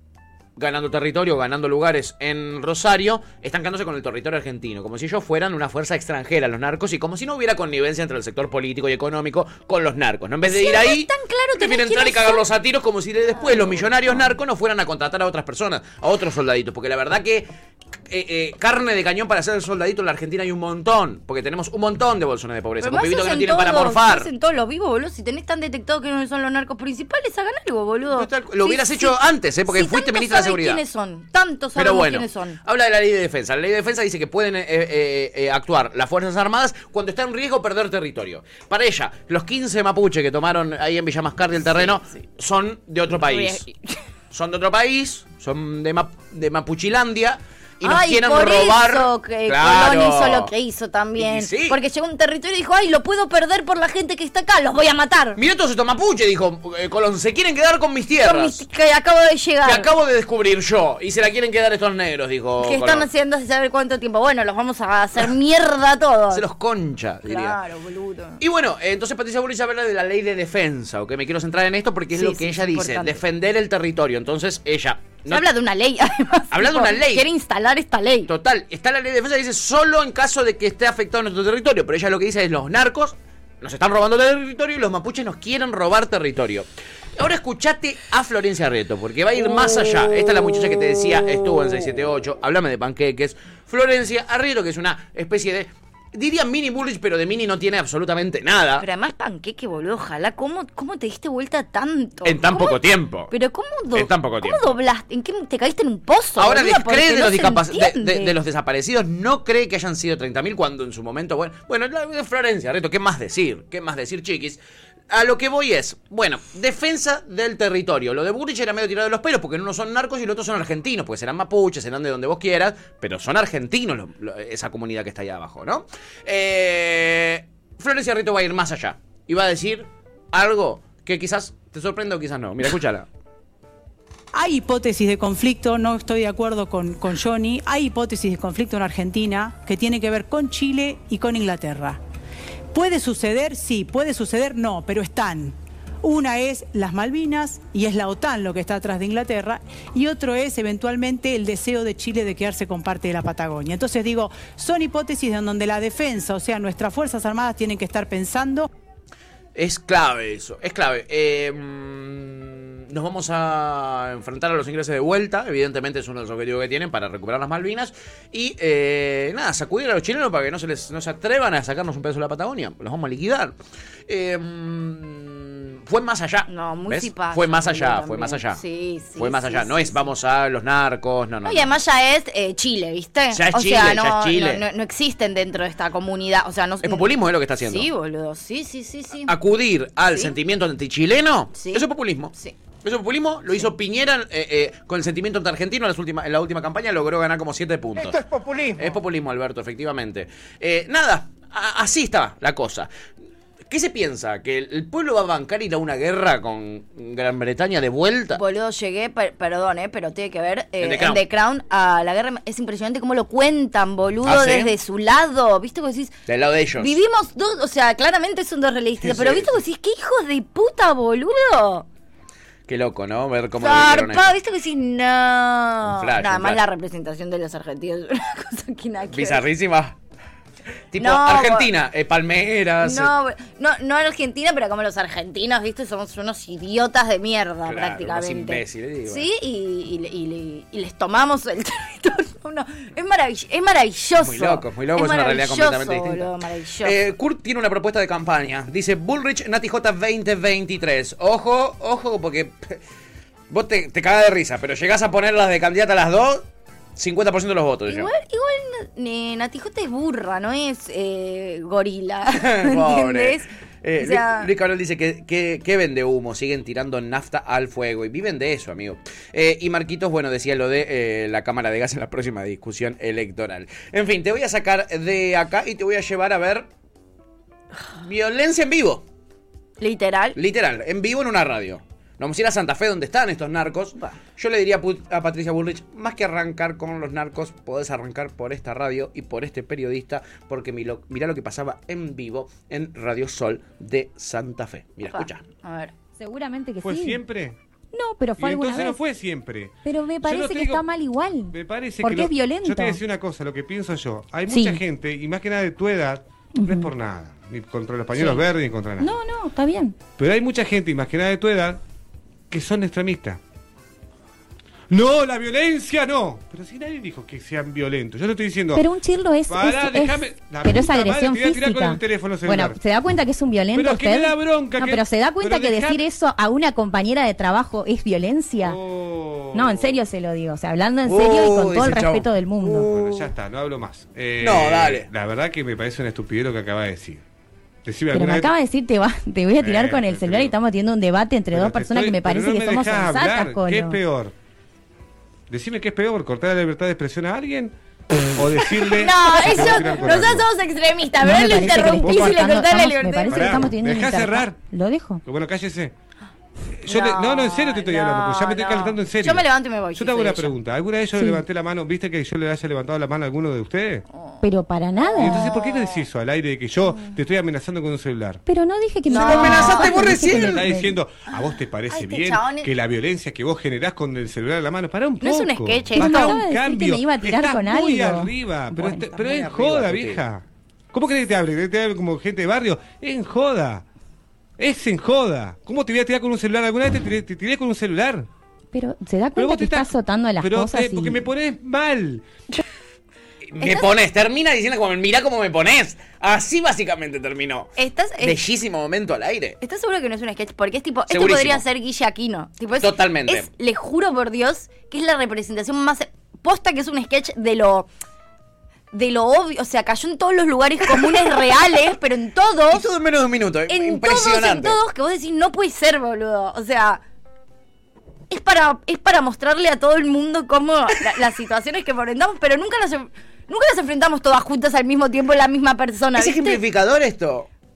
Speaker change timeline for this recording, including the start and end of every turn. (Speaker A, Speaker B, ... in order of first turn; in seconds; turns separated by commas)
Speaker A: 0.6-17.5, Speaker B: 10.5-12.4, Speaker B: 13.4-13.8, Speaker A: 18.1-24.3, Speaker B: 22.8-29.2, Speaker A: 28.1-30.8, Speaker B: 29.7-32.6, Speaker A: 31.7-43.7, Speaker B: 41.6-42.0, Speaker B: 43.2-44.0, Speaker A: 44.3-50.5, Speaker B: 47.8-55.4, Speaker A: 51.2-51.8, Speaker A: 55.4-58.6, Speaker B: 58.2-59.9, Speaker A: 59.6-63.1, Speaker B: 62.6-66.4, Speaker A: 66.3-67.6, Speaker B: 67.3-68.4, Speaker A: 68.4-75.4, Speaker B: 72.1-73.2, Speaker B: 75.3-78.3, Speaker A: 76.5-77.2, Speaker A: 78.3-86.7, Speaker A: 87.2-98.8, Speaker B: 98.8-108.3, Speaker A: 102.2-103.3, Speaker A: 103.9-104.8, Speaker A: 106.4-133.1, Speaker C: 134.3-142.0, Speaker C: 142.7-158.7, Speaker A: 159.5-173.5, Speaker A: 174.1-178.6, Speaker B: 176.5-180.1, Speaker A: 179.2-181.7, Speaker B: 181.4-187.1, Speaker A: 183.3-184.6, Speaker A: 186.8-187.9, Speaker B: 187.6-189.3, Speaker A: 189.2-198.2, Speaker B: 191.6-192.6, Speaker A: 198.7-202.9, Speaker A: 203.7-208.4, Speaker B: 208.3-216.1, Speaker A: 210.8-211.2, Speaker A: 214.2-214.7, Speaker A: 216.3-216.9, Speaker B: 216.8-221.8, Speaker A: 219.0-219.5, Speaker A: 222.7-224.3, Speaker B: 223.6-229.4, Speaker A: 225.8-226.6, Speaker A: 229.1-229.9, Speaker A: 230.9-233.1, Speaker B: 231.0-231.7, Speaker B: 232.8-247.0, Speaker A: 237.6-239.2, Speaker A: 244.2-246.3, Speaker A: 246.8-252.8, Speaker A: 253.5-256.4, Speaker A: 256.9-258.1, Speaker B: 257.9-263.4, Speaker A: 262.4-276.7, Speaker B: 264.0-264.5, Speaker A: 278.0-279.0, Speaker B: 279.8-280.4, Speaker A: 280.4-295.4, Speaker B: 295.1-295.9, Speaker D: 296.2-297.2, Speaker E: 296.8-297.6, Speaker D: 297.9-299.0, Speaker E: 298.4-300.9, Speaker D: 299.8-303.0, Speaker E: 301.5-309.1, Speaker D: 304.5-304.8, Speaker D: 306.6-306.9, Speaker D: 308.1-308.4, Speaker D: 309.0-310.0, Speaker E: 310.1-311.8, Speaker E: 312.5-313.4, Speaker E: 314.9-318.9, Speaker D: 318.7-328.8, Speaker E: 319.5-322.8, Speaker E: 323.7-326.1, Speaker E: 328.6-330.0, Speaker D: 329.5-332.9, Speaker A: 331.1-333.3, Speaker E: 332.6-337.2, Speaker A: 334.4-335.1, Speaker E: 337.8-338.5, Speaker D: 338.1-344.0, Speaker E: 339.6-340.6, Speaker E: 341.5-344.3, Speaker E: 345.5-347.7, Speaker E: 348.4-350.5, Speaker B: 348.9-353.5, Speaker D: 351.2-355.2, Speaker E: 351.4-352.6, Speaker E: 353.3-354.6, Speaker E: 355.2-355.9, Speaker E: 356.8-364.0, Speaker B: 356.9-360.5, Speaker D: 361.2-361.4, Speaker D: 364.4-365.5, Speaker B: 365.0-366.0, Speaker E: 365.1-368.4, Speaker D: 368.4-371.0, Speaker B: 369.1-370.5, Speaker E: 369.1-383.9, Speaker A: 369.1-370.2, Speaker B: 371.9-372.7, Speaker B: 375.2-376.4, Speaker D: 376.0-379.1, Speaker A: 379.2-380.2, Speaker E: 384.6-388.3, Speaker D: 388.7-391.2, Speaker E: 389.3-392.2, Speaker A: 393.5-399.6, Speaker B: 393.6-393.9, Speaker B: 397.8-398.4, Speaker B: 399.6-407.9, Speaker A: 401.1-401.6, Speaker A: 402.8-403.5, Speaker B: 408.9-412.8, Speaker A: 412.7-414.8, Speaker B: 413.7-417.0, Speaker B: 418.3-426.6, Speaker A: 426.1-427.5